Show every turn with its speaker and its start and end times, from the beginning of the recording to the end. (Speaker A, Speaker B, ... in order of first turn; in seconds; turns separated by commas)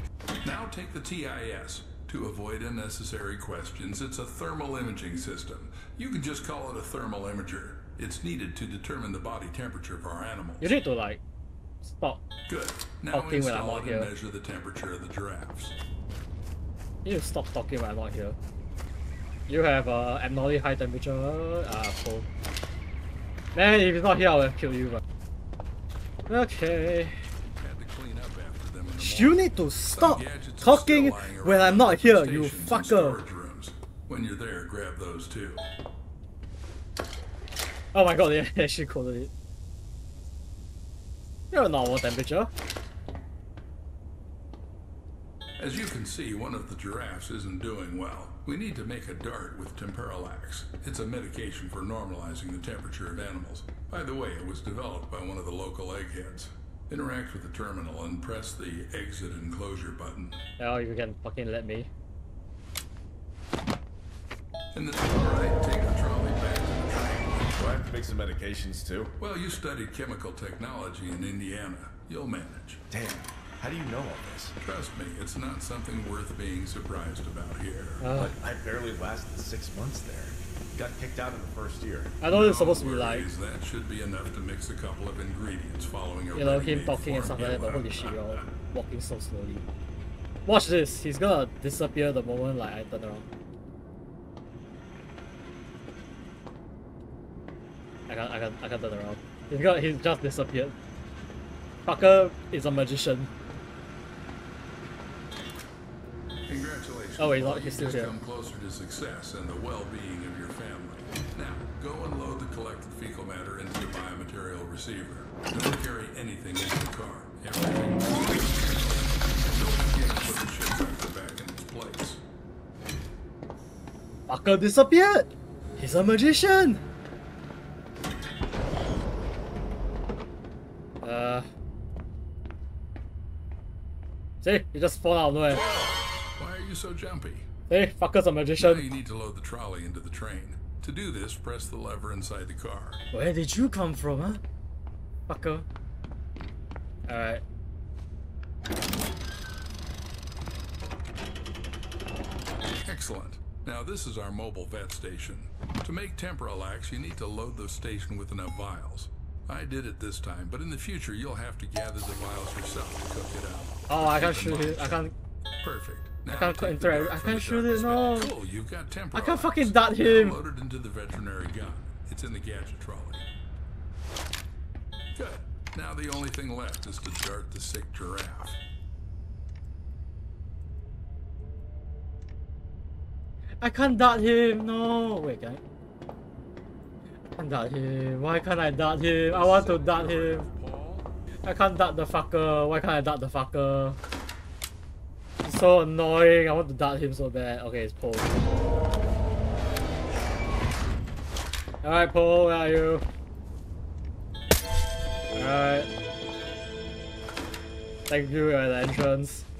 Speaker A: 0.4-10.7, Speaker B: 10.6-11.2, Speaker B: 11.8-12.2, Speaker A: 12.5-15.7, Speaker B: 13.1-14.1, Speaker B: 17.0-18.4, Speaker B: 19.5-22.3, Speaker B: 23.5-25.0, Speaker B: 26.3-27.2, Speaker A: 27.6-35.7, Speaker B: 28.9-33.2, Speaker B: 37.9-39.3, Speaker B: 41.5-42.5, Speaker A: 45.6-60.4, Speaker B: 60.6-61.9, Speaker A: 64.7-67.5, Speaker C: 67.6-69.1, Speaker A: 69.2-72.8, Speaker C: 72.9-74.5, Speaker A: 74.6-78.0, Speaker B: 78.0-78.3, Speaker C: 78.1-82.1, Speaker B: 82.2-83.3, Speaker A: 82.2-88.4, Speaker B: 86.3-89.6, Speaker B: 90.5-93.2, Speaker B: 98.1-100.7, Speaker B: 101.8-103.3, Speaker A: 106.5-122.2, Speaker B: 107.2-108.1, Speaker B: 124.3-126.8, Speaker B: 131.0-131.5, Speaker B: 134.4-135.6, Speaker A: 135.6-137.5, Speaker B: 137.7-138.9, Speaker A: 138.6-143.0, Speaker B: 143.1-144.4, Speaker B: 145.3-145.7, Speaker B: 147.1-147.4, Speaker A: 152.8-165.0, Speaker B: 163.9-165.1, Speaker A: 165.6-173.2, Speaker B: 166.3-168.3, Speaker B: 169.1-170.4, Speaker A: 175.1-178.6, Speaker B: 183.6-185.6, Speaker B: 187.4-190.5, Speaker A: 189.3-191.1, Speaker B: 191.4-194.0, Speaker B: 195.4-198.4, Speaker B: 201.8-203.0, Speaker B: 205.3-205.9, Speaker B: 208.1-209.4